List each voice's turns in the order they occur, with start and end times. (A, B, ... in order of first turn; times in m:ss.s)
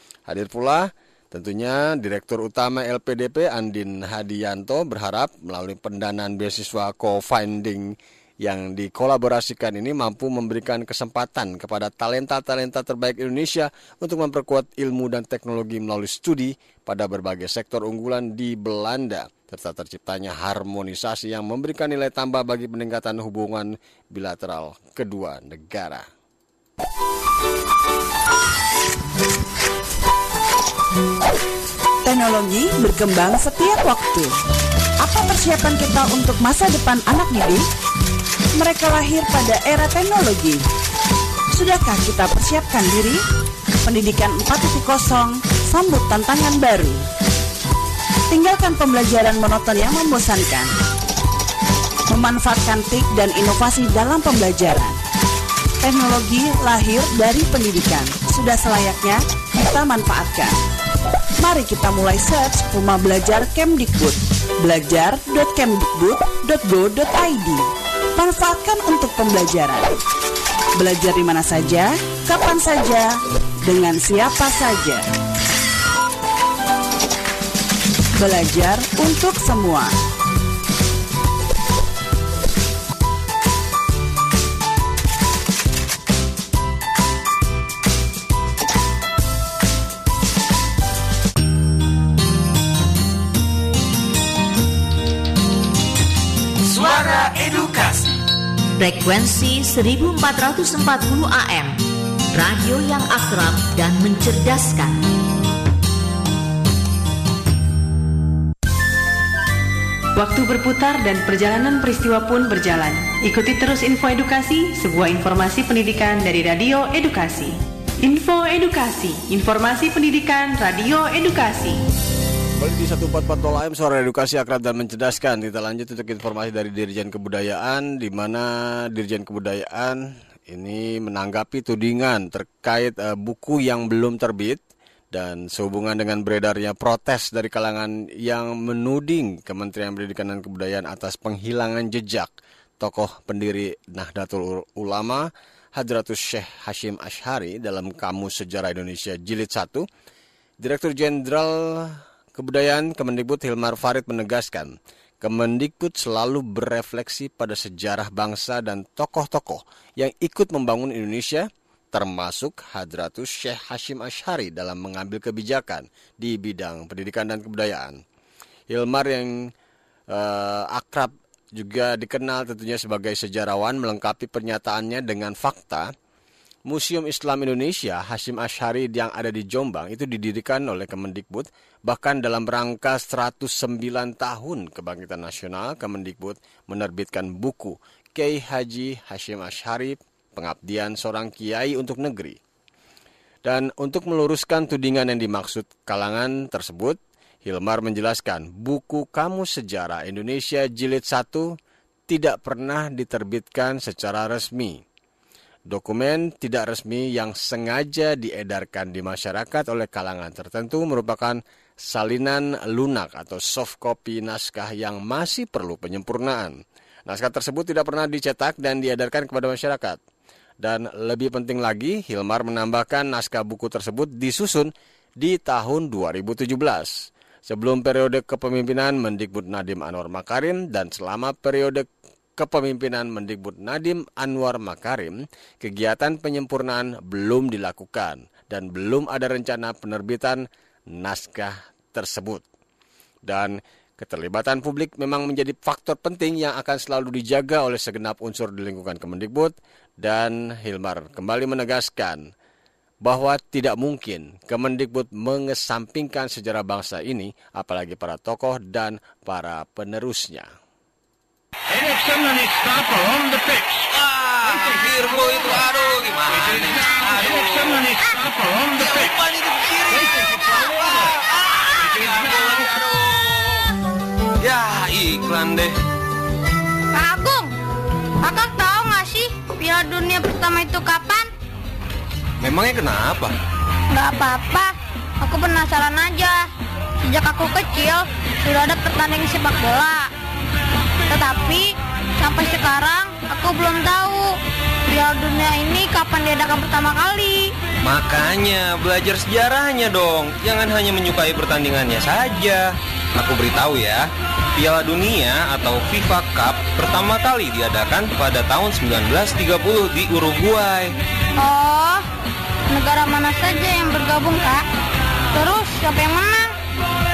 0:00.3-0:26.0 A
0:32.0-0:34.3 B
0:35.0-0:37.6 B
0:38.6-0:40.6 B
0:41.6-0:43.2 B
0:43.9-0:47.0 B
0:48.3-0:50.7 B
0:52.1-0:55.0 B
0:55.8-1:00.6 B
1:01.4-1:07.6 B
1:08.2-1:09.9 B
1:10.8-1:13.1 B
1:13.7-1:15.0 B
1:18.2-1:19.9 B
1:36.7-1:38.1 C
1:38.8-1:41.8 D
1:42.3-1:45.0 D
1:50.2-2:01.8 E
2:02.6-2:14.6 A
2:15.1-2:29.9 A
2:30.6-2:48.0 A
2:48.7-2:49.3 A
2:50.1-2:55.9 A
2:56.7-3:12.4 A
3:13.4-3:21.5 A
3:22.1-3:24.8 A
3:25.7-3:40.0 A
3:40.6-3:51.9 A
3:52.4-4:02.4 A
4:03.3-4:12.3 A
4:13.0-4:20.5 A
4:23.9-4:27.9 C
4:28.8-4:30.1 C
4:31.9-4:33.3 C
4:34.4-4:35.7 C
4:37.0-4:37.5 F
4:38.2-4:41.3 F
4:42.4-4:43.3 C
4:43.9-4:46.5 F
4:47.1-4:50.1 F
4:51.1-4:57.5 F
4:57.8-5:10.9 C
5:11.4-5:12.0 F
5:12.7-5:14.6 F
5:15.3-5:16.5 F